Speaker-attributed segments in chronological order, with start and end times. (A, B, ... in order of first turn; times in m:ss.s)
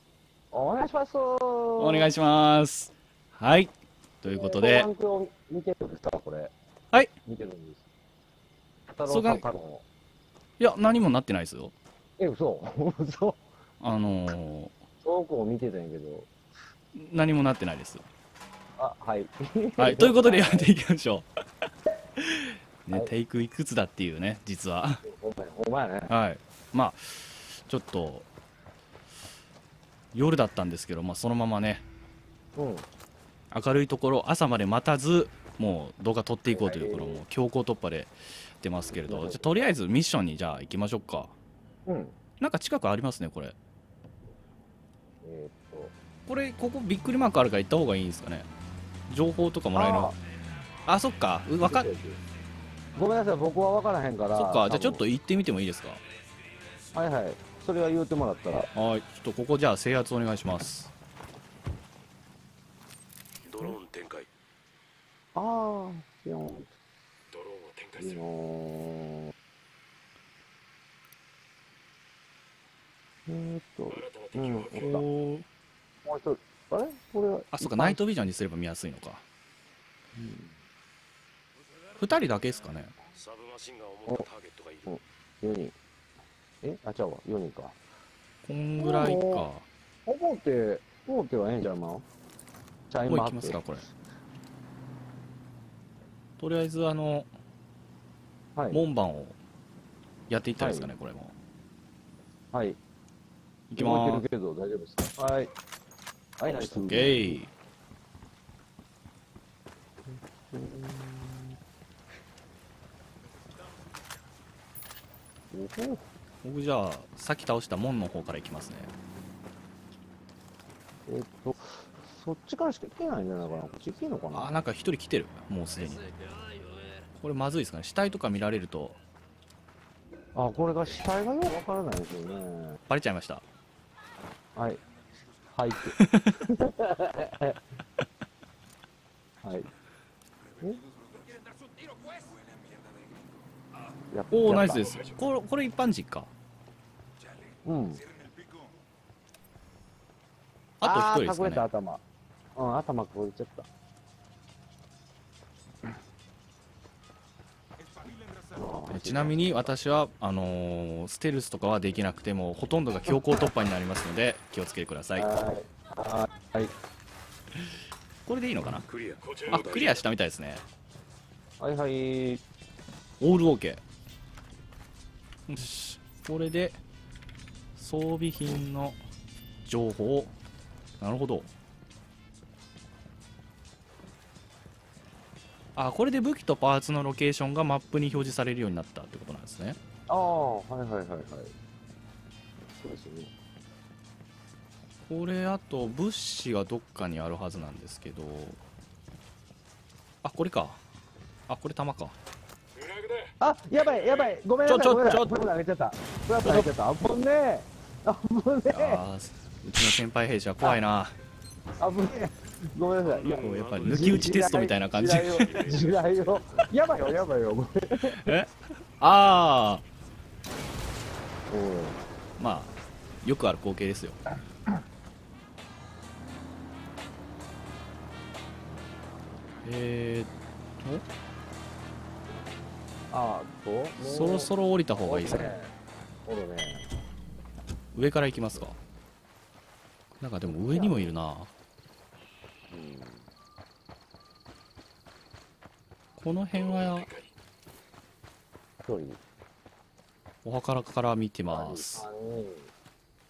0:00.5-0:02.1 A
0:01.8-0:04.9 B
0:04.2-0:06.5 A
0:07.2-0:07.8 A
0:08.9-0:09.8 A
0:09.0-0:09.4 B
0:10.6-0:11.7 B
0:12.2-0:13.4 A
0:13.8-0:14.7 B
0:15.0-0:16.3 A
0:16.9-0:18.0 B
0:18.8-0:20.7 A
0:19.8-0:21.2 B
0:22.2-0:25.0 B
0:25.0-0:26.1 A
0:26.1-0:28.3 B
0:30.1-0:31.8 B
0:32.6-0:32.8 A
0:33.5-0:41.3 B
0:36.5-0:37.2 A
0:39.0-0:39.7 A
0:41.8-0:42.1 A
0:42.4-0:43.5 B
0:45.2-0:45.9 A
0:46.3-0:48.5 B
0:49.1-0:50.1 B
0:49.7-0:50.2 A
0:50.9-0:51.9 B
0:51.6-0:52.2 A
0:52.9-0:55.0 A
0:54.3-0:56.0 B
0:56.9-0:58.7 A
0:58.7-1:00.9 B
1:03.4-1:04.3 C
1:05.3-1:06.7 A
1:07.3-1:08.2 C
1:08.0-1:09.3 A
1:13.3-1:15.0 A
1:13.9-1:14.8 C
1:14.7-1:15.4 B
1:16.0-1:18.0 A
1:17.5-1:19.2 B
1:20.2-1:20.6 A
1:22.0-1:22.9 B
1:23.1-1:24.9 C
1:24.8-1:25.7 A
1:26.6-1:27.8 A
1:28.4-1:29.6 B
1:28.8-1:29.5 A
1:30.0-1:32.0 A
1:32.9-1:33.7 A
1:33.0-1:33.8 B
1:36.4-1:37.3 B
1:38.6-1:38.8 A
1:38.7-1:39.4 B
1:40.3-1:41.3 B
1:40.6-1:40.9 A
1:42.5-1:42.8 A
1:43.7-1:44.2 B
1:43.8-1:45.5 A
1:46.4-1:47.3 A
1:46.7-1:47.5 B
1:50.1-1:51.6 A
1:55.5-1:56.0 A
1:56.4-1:58.9 B
2:01.1-2:04.5 A
2:04.3-2:06.1 B
2:07.2-2:09.0 B
2:10.3-2:12.8 A
2:12.9-2:13.4 B
2:14.6-2:14.8 A
2:15.5-2:17.6 A
2:16.0-2:16.3 B
2:19.4-2:19.7 A
2:24.1-2:24.8 A
2:24.3-2:26.3 B
2:24.7-2:25.2 C
2:27.6-2:28.0 A
2:30.8-2:31.6 B
2:30.8-2:32.0 A
2:32.6-2:33.7 A
2:38.6-2:39.4 A
2:38.9-2:45.3 B
2:45.2-2:46.7 A
2:48.2-2:48.9 B
2:48.9-2:50.0 C
2:49.5-2:50.6 B
2:51.6-2:52.4 A
2:53.2-2:53.8 B
2:55.5-2:56.8 B
2:57.8-2:59.0 B
2:59.6-3:00.3 B
3:01.0-3:01.5 B
3:05.8-3:09.8 B
3:10.1-3:11.5 A
3:12.7-3:13.3 A
3:15.1-3:18.6 B
3:20.2-3:20.8 B
3:21.5-3:22.1 B
3:22.8-3:23.3 C
3:23.4-3:29.0 A
3:24.6-3:25.3 B
3:28.7-3:31.1 B
3:31.8-3:38.3 A
3:33.0-3:36.7 C
3:33.2-3:35.5 B
3:38.1-3:39.8 B
3:41.5-3:42.0 A
3:42.4-3:44.2 B
3:49.6-3:51.0 B
3:53.1-3:55.7 A
3:54.0-3:55.6 B
3:56.2-3:56.9 A
3:57.9-3:58.8 B
4:00.2-4:01.5 B
4:00.5-4:01.1 A
4:02.7-4:03.3 A
4:06.2-4:07.1 B
4:06.5-4:07.3 C
4:08.8-4:09.2 A
4:10.4-4:12.1 B
4:11.5-4:12.7 A